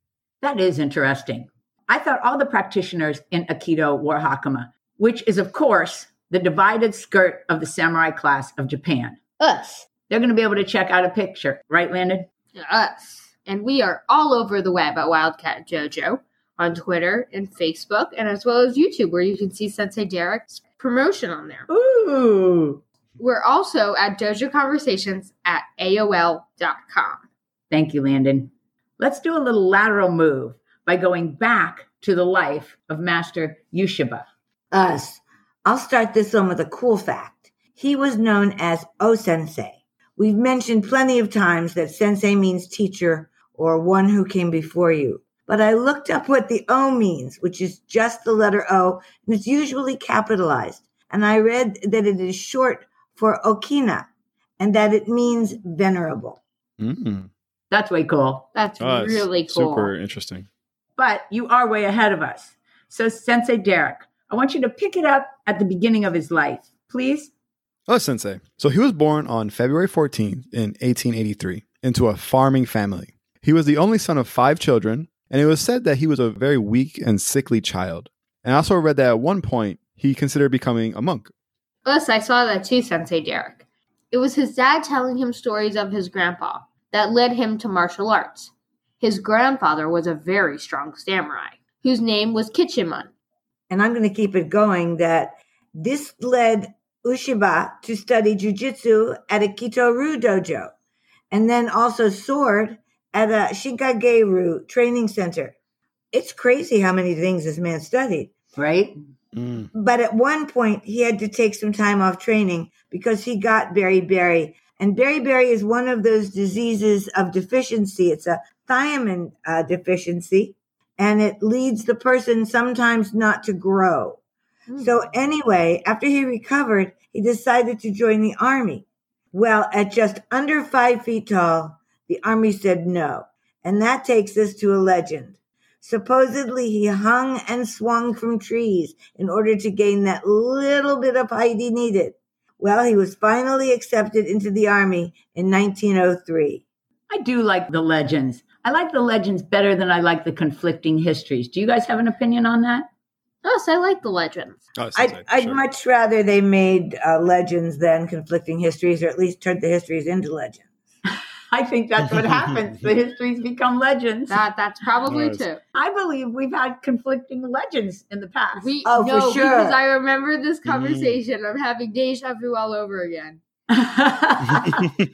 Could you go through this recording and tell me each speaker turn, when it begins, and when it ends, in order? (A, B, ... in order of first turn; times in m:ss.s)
0:00.4-0:09.2 A
0:09.4-0:09.9 B
0:10.1-0:12.3 A
0:12.6-0:21.7 B
0:21.7-0:22.8 A
0:23.2-0:27.2 B
0:27.7-0:34.3 A
0:34.7-0:54.1 C
0:54.6-0:56.4 C
0:56.8-0:57.3 D
0:57.7-0:58.5 A
0:58.6-0:59.9 B
0:58.8-1:00.5 D
1:01.0-1:07.3 A
1:07.9-1:21.3 D
1:21.8-1:33.1 B
1:33.7-1:40.7 C
1:41.3-1:45.6 C
1:46.1-1:48.3 C
1:48.6-1:49.0 A
1:49.3-1:49.7 D
1:49.7-2:04.2 C
2:04.8-2:26.6 C
2:27.1-2:32.9 A
2:33.4-2:34.6 B
2:34.8-2:35.6 D
2:35.0-2:40.6 C
2:41.5-2:44.4 A
2:44.3-2:45.6 B
2:45.1-2:45.4 D
2:45.8-2:48.7 A
2:48.6-2:53.4 B
2:48.8-2:49.8 C
2:50.7-2:51.2 D
2:53.7-2:54.9 A